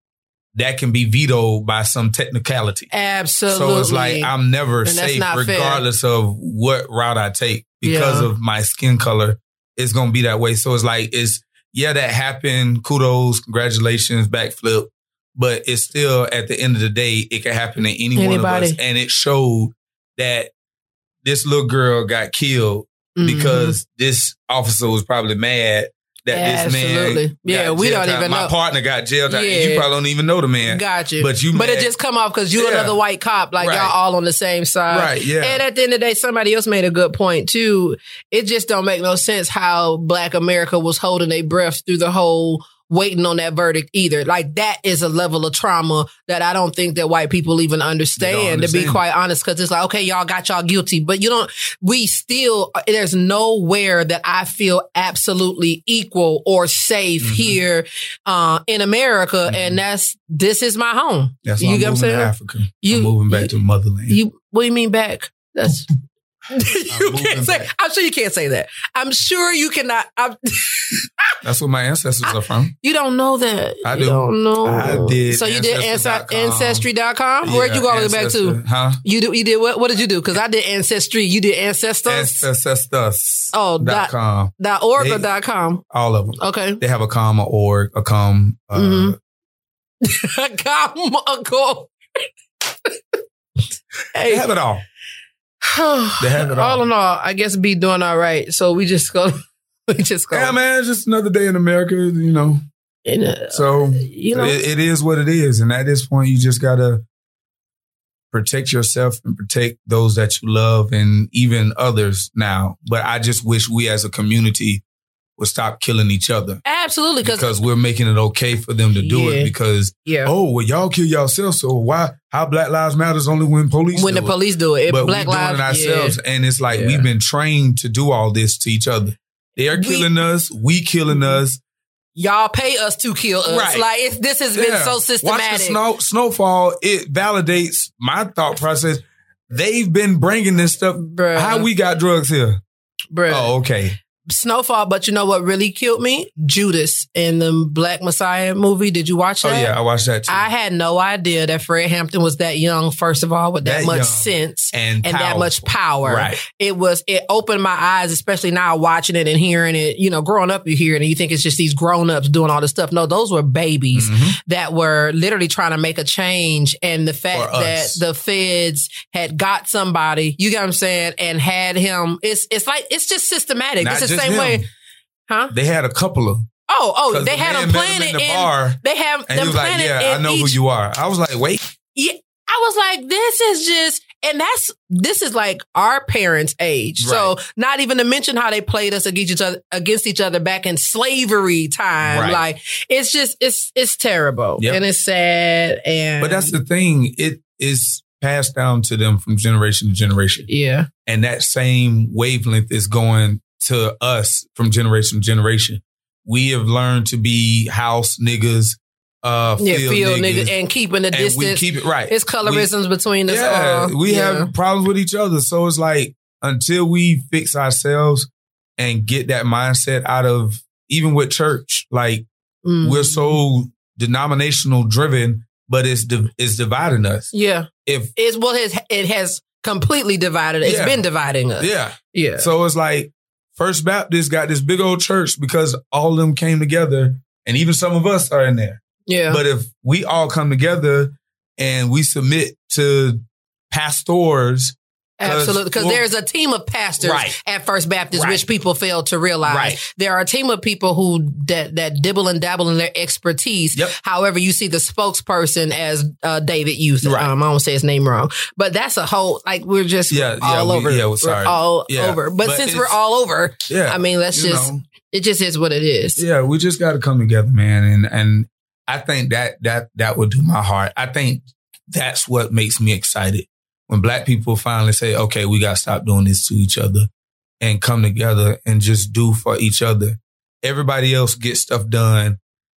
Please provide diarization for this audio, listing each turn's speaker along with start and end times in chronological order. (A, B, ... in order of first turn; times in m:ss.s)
0:00.5-0:02.9 A
0:02.9-0:04.3 B
0:03.5-0:20.5 A
0:04.8-0:05.8 B
0:07.8-0:08.3 B
0:18.2-0:18.8 B
0:21.2-0:31.9 A
0:23.2-0:23.8 B
0:26.3-0:28.5 B
0:29.3-0:29.9 B
0:30.6-1:02.3 B
0:32.5-0:33.0 A
0:33.6-0:33.9 A
0:34.9-0:35.6 A
0:48.2-0:49.0 A
0:57.2-0:57.6 A
0:59.4-0:59.8 A
1:01.4-1:04.2 A
1:02.8-1:03.5 B
1:04.1-1:05.9 B
1:06.5-1:11.4 B
1:06.9-1:07.7 A
1:11.4-1:12.7 A
1:12.8-1:22.5 B
1:13.8-1:16.8 A
1:17.4-1:19.0 A
1:22.0-1:25.3 A
1:23.5-1:25.8 B
1:25.8-1:29.2 A
1:26.4-1:26.8 B
1:28.7-1:29.2 B
1:30.0-1:31.9 B
1:34.1-1:34.5 B
1:34.2-1:34.8 A
1:35.6-1:40.6 B
1:36.2-1:36.8 A
1:40.3-1:42.6 A
1:43.0-1:44.6 B
1:43.5-1:47.0 A
1:48.3-1:54.8 A
1:55.4-1:56.6 A
1:56.6-1:57.5 B
1:57.2-2:04.4 A
1:59.0-1:59.5 B
2:00.0-2:00.3 B
2:03.9-2:06.2 B
2:04.9-2:11.6 A
2:06.7-2:07.1 B
2:09.7-2:10.1 B
2:11.1-2:11.4 B
2:12.2-2:15.8 B
2:13.5-2:13.8 A
2:14.5-2:22.6 A
2:21.0-2:21.7 B
2:23.1-2:23.5 B
2:23.3-2:24.0 A
2:24.3-2:29.7 B
2:29.4-2:30.5 A
2:30.3-2:54.6 B
2:33.6-2:36.4 A
2:43.9-2:44.4 A
2:47.3-2:48.0 A
2:53.8-2:54.6 A
2:55.3-2:55.5 B
2:55.5-2:56.5 A
2:56.7-3:00.6 B
2:57.1-3:01.7 A
3:01.9-3:16.5 B
3:07.0-3:07.3 A
3:12.0-3:12.4 A
3:16.2-3:20.5 A
3:20.5-3:20.9 B
3:21.0-3:30.5 A
3:29.6-3:34.5 B
3:31.1-3:32.7 A
3:33.3-3:42.2 A
3:42.6-3:43.4 B
3:42.8-3:47.3 A
3:47.3-3:52.5 B
3:47.8-3:48.1 A
3:50.6-3:51.0 A
3:51.6-4:06.0 A
3:59.1-3:59.4 B
4:05.2-4:26.2 B
4:07.0-4:07.4 A
4:08.1-4:08.4 A
4:09.4-4:09.8 A
4:17.0-4:17.3 A
4:20.1-4:23.0 A
4:23.7-4:24.8 A
4:26.2-4:37.1 A
4:37.6-4:42.4 A